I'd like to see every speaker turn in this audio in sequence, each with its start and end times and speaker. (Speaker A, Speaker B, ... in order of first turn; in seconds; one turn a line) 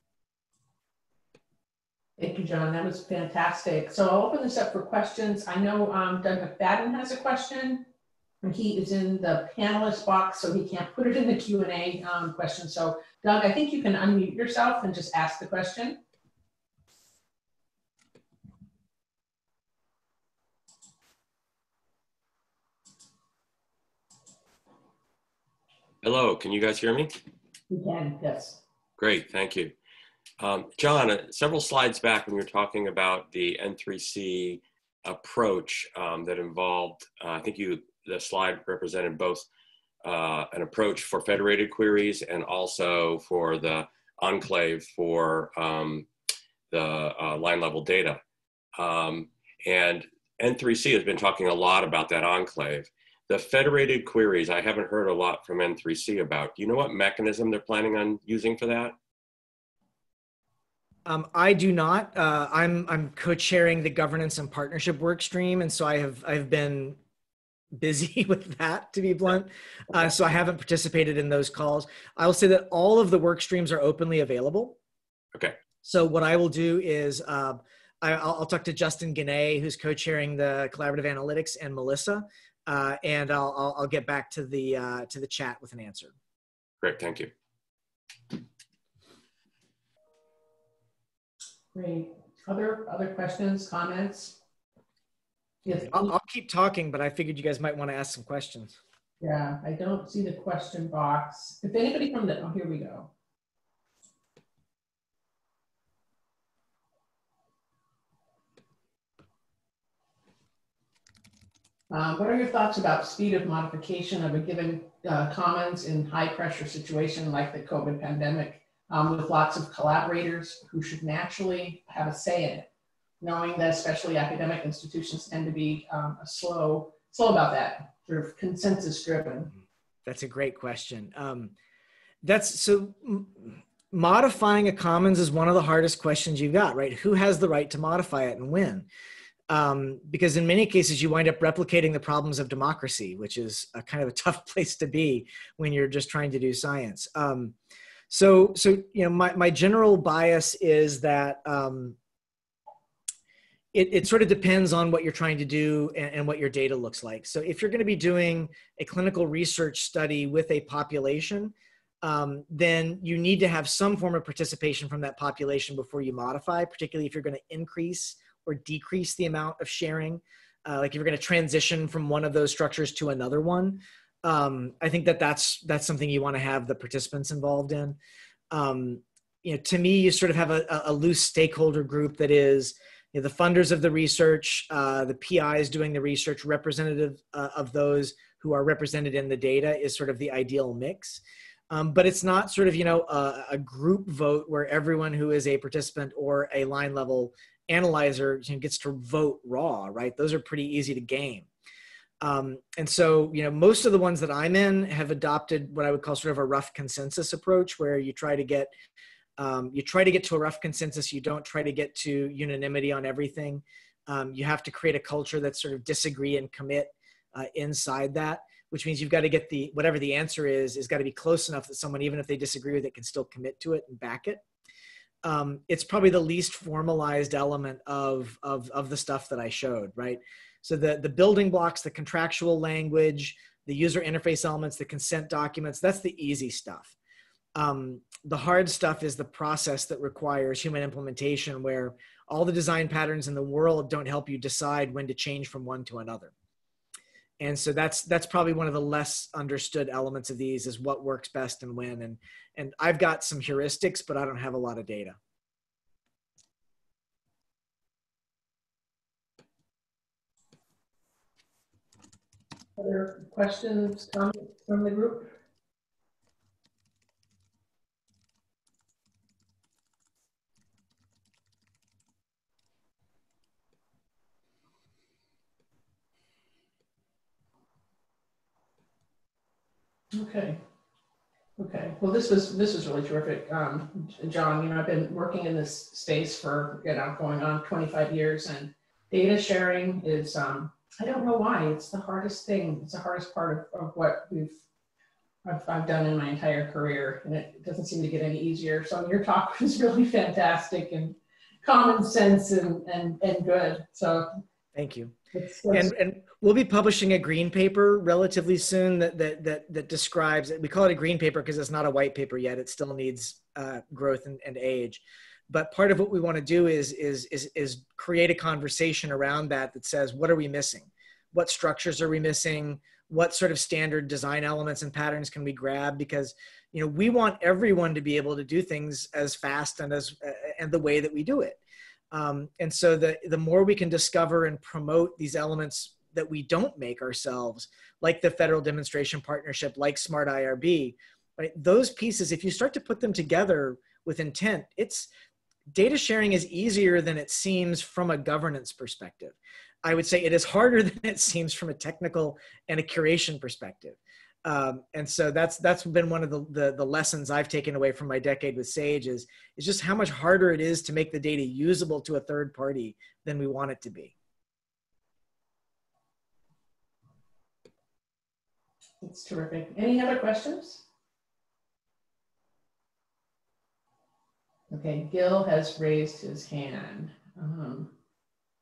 Speaker A: 2.2-7.8
Speaker A: 8.4-16.0
Speaker B: 26.0-27.1
Speaker A: 27.7-28.6
Speaker B: 29.0-29.7
Speaker B: 30.4-39.5
Speaker B: 40.0-46.1
Speaker B: 46.7-48.2
Speaker B: 48.8-59.0
Speaker C: 61.1-67.0
Speaker C: 67.7-74.8
Speaker B: 75.3-75.6
Speaker C: 75.8-86.1
Speaker B: 86.8-87.3
Speaker A: 91.7-94.4
Speaker A: 95.7-96.1
Speaker C: 95.9-98.8
Speaker A: 99.2-103.1
Speaker A: 111.9-122.7
Speaker A: 123.2-129.5
Speaker C: 130.1-131.5
Speaker C: 132.2-138.9
Speaker C: 139.5-147.6
Speaker C: 148.1-152.0
Speaker C: 153.7-178.0
Speaker C: 178.5-201.5
Speaker C: 202.2-208.7
Speaker C: 209.4-224.4
Speaker C: 225.2-236.9
Speaker C: 237.6-246.3
Speaker C: 247.4-255.2
Speaker A: 262.8-265.3
Speaker A: 280.1-280.6
Speaker A: 281.6-294.6
Speaker A: 295.4-304.4
Speaker C: 304.8-305.1
Speaker A: 305.3-305.9
Speaker C: 305.7-331.6
Speaker C: 332.1-345.1
Speaker C: 345.7-364.1
Speaker A: 369.0-370.8
Speaker A: 374.7-377.9